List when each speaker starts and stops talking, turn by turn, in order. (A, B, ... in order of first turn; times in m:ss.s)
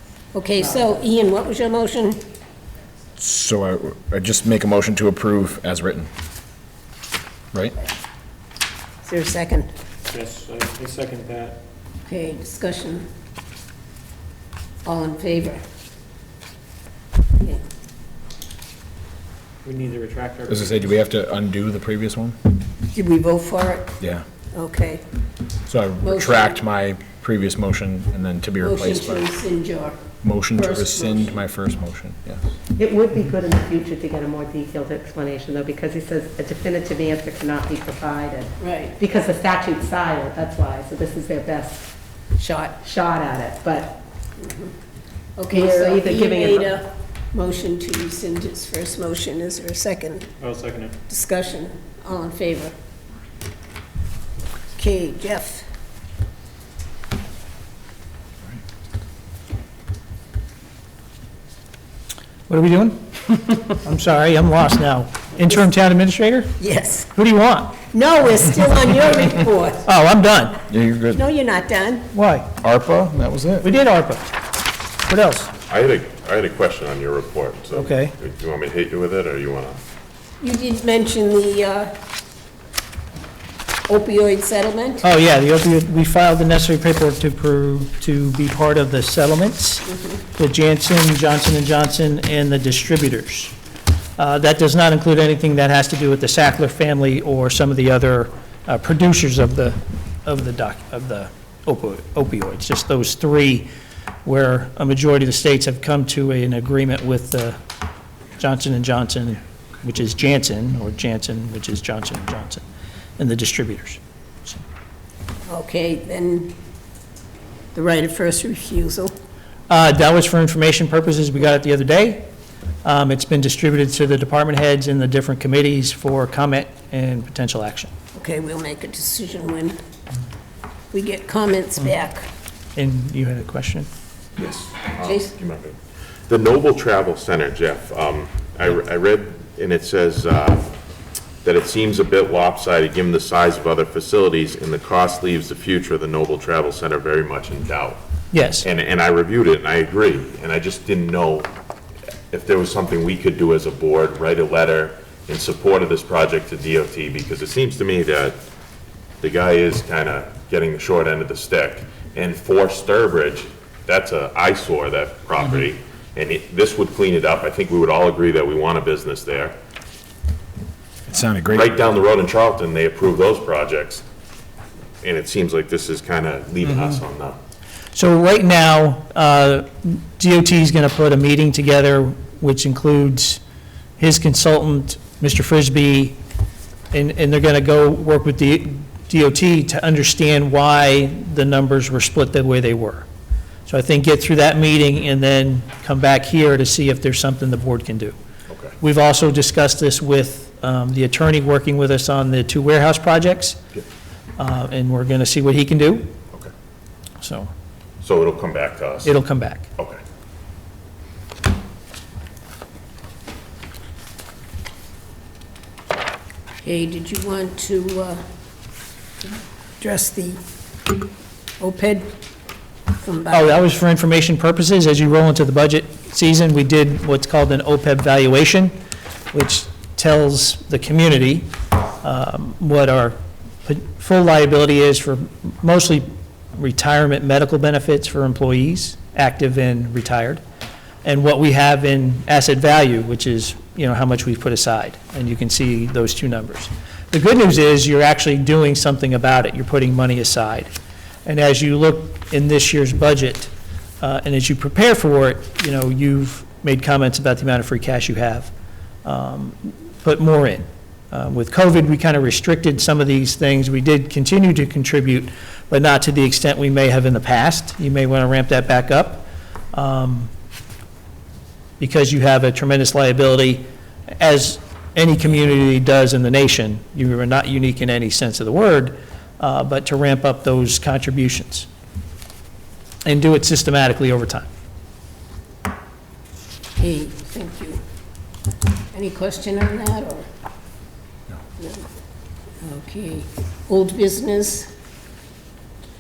0:00.3-0:02.2 A
0:03.2-0:06.1 B
0:09.0-0:09.7 A
0:10.0-0:11.6 C
0:12.1-0:13.1 A
0:14.8-0:15.6 A
0:19.6-0:20.9 C
0:20.5-0:22.4 B
0:22.9-0:24.0 A
0:24.5-0:25.0 A
0:25.7-0:29.3 B
0:26.0-0:26.5 A
0:28.6-0:30.0 A
0:30.2-0:32.5 B
0:30.6-0:31.3 A
0:32.8-0:41.9 D
0:38.6-0:39.0 A
0:42.4-0:42.8 A
0:42.8-0:44.0 D
0:44.4-0:44.7 A
0:45.4-0:50.3 A
0:45.5-0:46.8 D
0:50.4-0:51.0 C
0:51.1-0:52.7 A
0:54.8-0:55.6 A
1:02.5-1:06.6 E
1:06.6-1:07.1 A
1:07.1-1:07.8 E
1:07.9-1:09.9 A
1:09.8-1:10.6 E
1:10.7-1:11.2 B
1:11.1-1:12.1 A
1:12.1-1:12.5 E
1:12.6-1:13.7 B
1:13.6-1:14.3 E
1:15.1-1:15.5 E
1:15.7-1:19.8 F
1:17.7-1:18.1 E
1:20.4-1:21.9 A
1:23.9-1:25.0 A
1:25.0-1:33.5 E
1:34.2-1:43.7 E
1:44.2-1:47.6 E
1:48.4-1:52.6 E
1:53.2-1:54.6 E
1:55.5-1:56.6 A
1:57.7-1:59.1 A
1:59.7-2:02.3 E
2:02.8-2:07.9 E
2:08.2-2:09.8 A
2:10.9-2:12.3 A
2:12.8-2:13.9 E
2:14.4-2:15.8 F
2:15.0-2:15.3 A
2:16.3-2:20.7 F
2:21.4-2:28.0 F
2:28.3-2:28.7 E
2:28.6-2:31.5 F
2:32.3-2:38.4 F
2:39.2-2:49.6 F
2:51.1-2:51.8 B
2:51.5-2:54.0 F
2:55.0-2:57.4 F
2:57.9-3:03.4 E
3:04.0-3:06.2 E
3:06.9-3:13.1 E
3:13.7-3:18.2 E
3:18.8-3:23.6 E
3:24.4-3:26.1 E
3:27.2-3:27.5 E
3:28.0-3:29.1 F
3:29.0-3:29.7 E
3:36.6-3:38.2 A
3:39.8-3:40.4 A
3:41.6-3:42.1 A
3:43.0-3:43.7 A
3:43.3-3:48.8 E
3:49.3-3:51.5 E
3:52.0-4:00.4 E
4:01.0-4:10.7 E
4:11.2-4:18.5 E
4:19.0-4:30.3 E
4:31.8-4:33.6 E
4:34.2-4:41.7 E
4:43.0-4:44.5 E
4:46.8-4:47.8 A
4:48.9-4:50.3 A
4:51.6-4:51.8 A
4:52.6-4:54.7 A